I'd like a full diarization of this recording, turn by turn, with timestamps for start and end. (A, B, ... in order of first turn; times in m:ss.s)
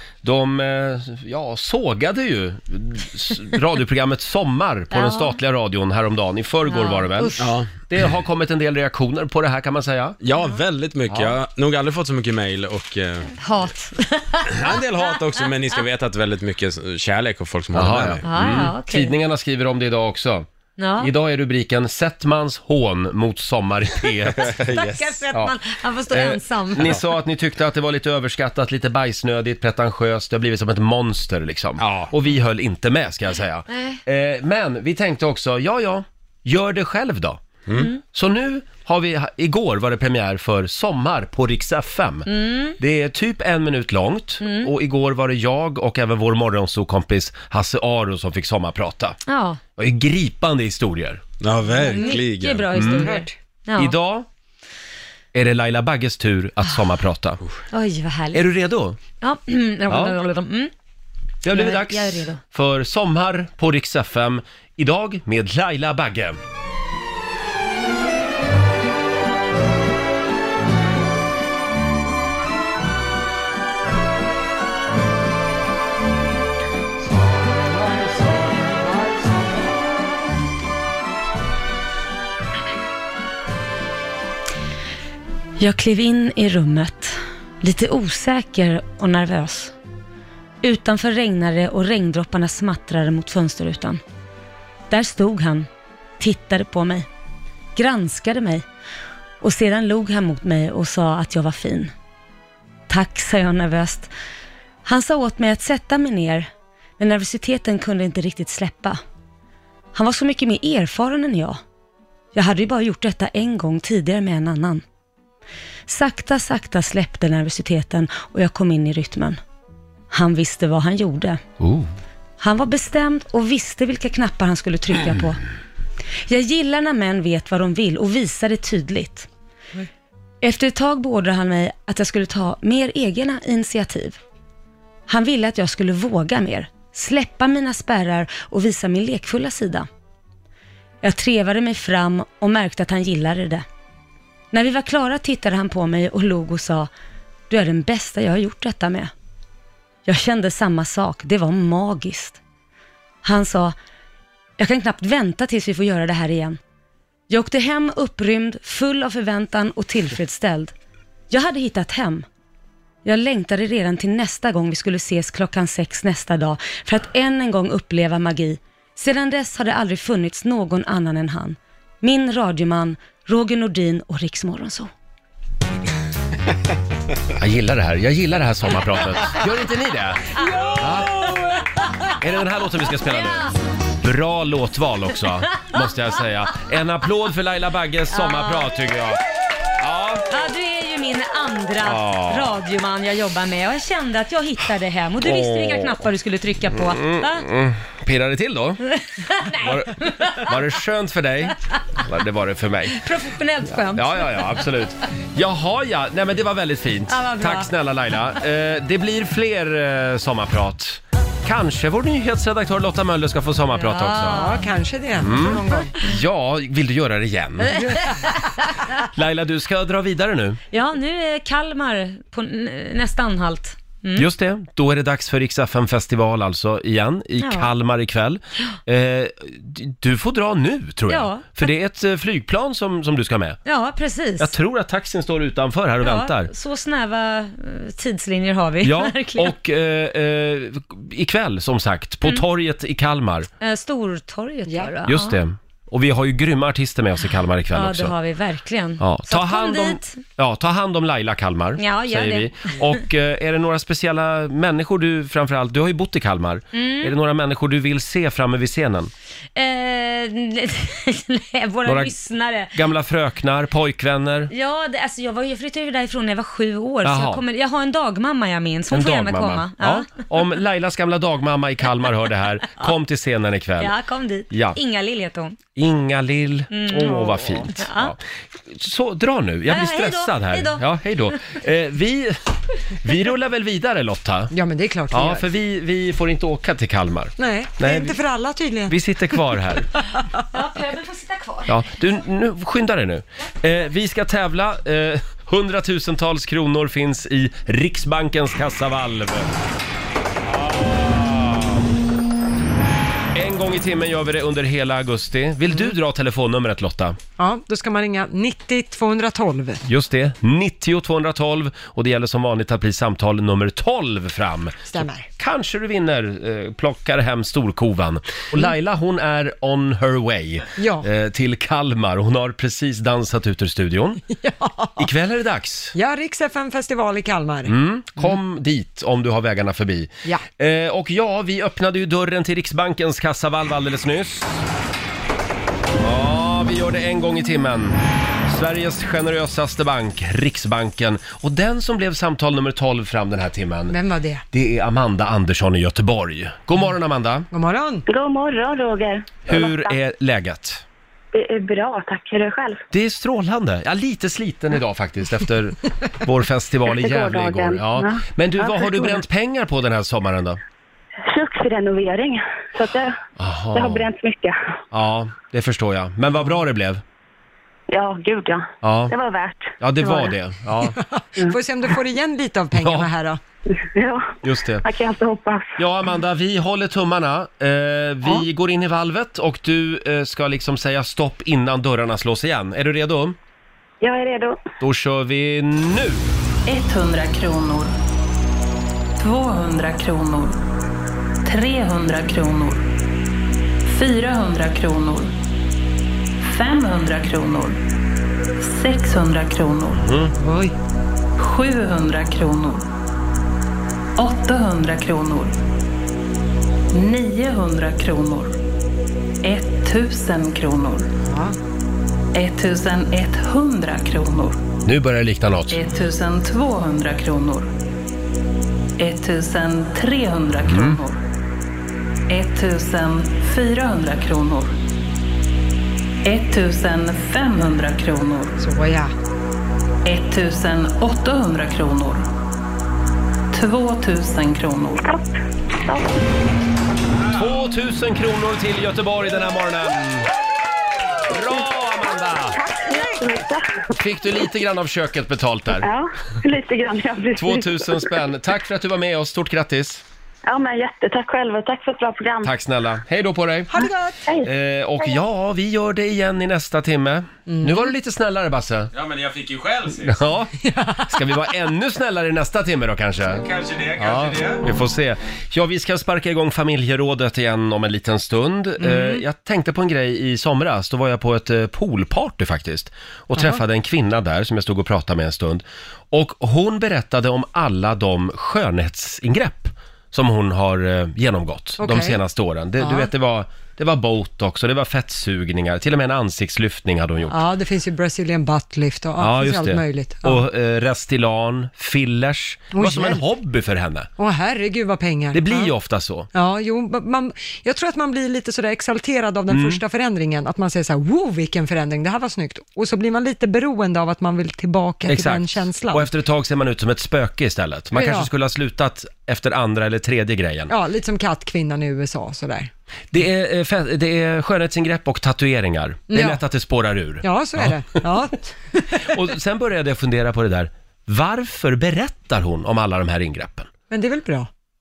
0:00.2-0:10.2 A
0:04.9-0:05.4 B
0:06.7-0:07.4 B
0:07.4-0:07.7 C
0:10.2-0:13.3 C
0:13.4-0:15.8 B
0:14.5-0:18.3 C
0:17.7-0:20.5 A
0:18.2-0:19.1 B
0:20.8-0:21.1 B
0:21.0-0:24.6 A
0:24.4-0:25.1 C
0:24.7-0:27.0 B
0:26.1-0:37.4 A
0:31.8-0:32.1 C
0:33.7-0:34.0 B
0:38.1-0:49.2 A
0:42.3-0:42.8 B
0:44.4-0:44.7 B
0:49.3-0:49.6 B
0:49.8-0:51.2 A
0:51.4-0:52.9 C
0:51.7-0:53.9 B
0:52.7-0:53.1 A
0:53.0-0:53.3 D
0:53.8-0:54.3 A
0:55.3-0:57.4 A
0:57.7-0:58.5 B
0:58.3-0:59.0 A
0:59.2-1:00.7 B
0:59.9-1:00.2 A
1:01.4-1:06.4 A
1:01.5-1:02.4 B
1:25.6-1:29.7 B
1:30.6-1:34.0 B
1:34.9-1:35.7 B
1:36.2-1:37.0 B
1:37.8-1:38.6 B
1:39.4-1:41.9 B
1:42.9-1:44.1 B
1:44.8-1:49.0 B
1:49.9-1:51.6 B
1:52.3-1:54.8 B
1:55.9-1:59.4 B
2:00.1-2:01.4 B
2:01.6-2:01.9 A
2:02.4-2:05.4 B
2:06.3-2:09.3 B
2:10.4-2:14.2 B
2:15.1-2:19.9 B
2:21.0-2:23.6 B
2:24.5-2:26.9 B
2:27.5-2:29.1 B
2:30.0-2:32.4 B
2:33.2-2:33.7 B
2:34.6-2:36.6 B
2:37.3-2:40.7 B
2:41.3-2:42.2 B
2:43.0-2:54.9 B
2:57.4-3:01.2 A
3:00.4-3:02.1 B
3:02.2-3:03.5 A
3:03.0-3:03.5 B
3:04.0-3:09.2 A
3:08.1-3:08.7 B
3:09.8-3:10.3 A
3:10.3-3:17.4 B
3:11.8-3:12.6 A
3:15.2-3:16.0 A
3:16.8-3:18.8 A
3:18.9-3:20.6 B
3:19.6-3:23.0 A
3:22.9-3:24.7 B
3:23.9-3:34.4 A
3:27.1-3:27.7 B
3:33.7-3:34.7 B
3:34.3-3:35.9 D
3:35.2-3:37.9 A
3:37.7-3:38.8 B
3:39.1-3:40.6 A
3:40.7-3:44.3 B
3:44.1-3:53.6 A
3:47.4-3:47.7 B
3:51.1-3:51.7 B
3:53.6-3:54.5 B
3:54.4-3:56.5 A
3:56.0-3:59.6 B
3:58.8-4:03.5 A
4:03.6-4:05.4 B
4:04.7-4:04.9 D
4:05.1-4:08.1 A
4:07.7-4:10.2 B
4:09.0-4:19.1 A
4:11.8-4:12.9 B
4:16.7-4:17.1 B
4:19.6-4:22.8 B
4:21.8-4:22.1 A
4:22.7-4:24.5 A
4:24.5-4:30.2 B
4:27.0-4:27.4 A
4:28.9-4:33.9 A
4:33.8-4:35.6 B
4:34.5-4:34.8 A
4:35.8-4:42.4 A
4:36.7-4:38.1 B
4:39.7-4:40.8 B
4:42.9-4:44.5 A
4:44.5-4:45.5 D
4:45.1-4:48.2 A
4:47.4-4:49.0 D
4:48.9-4:49.9 A
4:50.5-4:51.8 B
4:51.7-4:59.5 A
5:00.5-5:01.8 A
5:03.3-5:07.2 A
5:07.4-5:09.8 D
5:09.8-5:24.2 A
5:14.9-5:15.3 D
5:20.8-5:21.1 D
5:24.3-5:25.0 D
5:25.0-5:25.9 A
5:25.9-5:28.3 D
5:27.6-5:34.6 A
5:36.0-5:43.9 A
5:43.9-5:44.4 D
5:44.5-5:47.5 A
5:47.5-5:48.0 D
5:48.1-5:49.9 E
5:49.4-5:50.8 A
5:51.3-5:52.8 E
5:52.9-6:00.6 A
5:56.9-5:59.2 E
6:01.3-6:03.2 E
6:03.4-6:04.0 A
6:03.7-6:04.6 E
6:04.9-6:07.0 A
6:07.9-6:10.3 E
6:08.8-6:09.1 A
6:09.8-6:11.0 A
6:10.9-6:13.4 D
6:12.8-6:13.1 A
6:13.8-6:15.8 E
6:14.4-6:14.8 A
6:15.8-6:23.4 A
6:24.0-6:24.6 E
6:24.8-6:26.2 A
6:26.6-6:27.9 F
6:29.2-6:30.6 F
6:31.4-6:32.8 F
6:33.8-6:35.3 F
6:36.4-6:37.8 F
6:38.6-6:40.0 F
6:39.9-6:40.3 A
6:40.4-6:40.7 D
6:41.4-6:42.8 F
6:44.2-6:45.6 F
6:46.9-6:48.6 F
6:49.4-6:51.1 F
6:51.2-6:51.6 D
6:52.3-6:54.6 F
6:54.8-6:55.8 A
6:55.7-6:57.7 F
6:59.0-7:01.2 F
7:00.6-7:01.0 A
7:02.3-7:04.7 F
7:06.2-7:08.6 F
7:08.6-7:09.1 D
7:10.0-7:12.3 F
7:13.5-7:15.1 F
7:15.8-7:16.1 E
7:17.3-7:20.3 A
7:21.3-7:22.6 A
7:22.5-7:23.8 E
7:23.9-7:25.8 A
7:25.8-7:28.0 E
7:27.3-7:30.0 A
7:30.4-7:32.5 E
7:32.4-7:33.9 A
7:33.7-7:34.2 D
7:34.4-7:38.9 A
7:37.5-7:37.8 D
7:38.9-7:40.2 C
7:40.0-7:43.4 A
7:40.6-7:41.0 D
7:43.3-7:44.6 C
7:44.0-8:07.4 A
7:48.8-7:49.2 D
7:53.3-7:53.6 D
8:01.8-8:02.2 D
8:02.8-8:03.1 D
8:07.3-8:10.4 D
8:09.2-8:14.1 A
8:12.7-8:13.2 D
8:14.2-8:15.7 D
8:15.3-8:16.3 A
8:16.3-8:26.1 D
8:19.5-8:19.8 A
8:25.1-8:30.7 A
8:27.9-8:28.3 D
8:30.7-8:32.7 D
8:33.1-8:38.0 A
8:36.1-8:36.4 D
8:37.2-8:39.1 D
8:38.9-8:43.7 A
8:43.9-8:44.5 D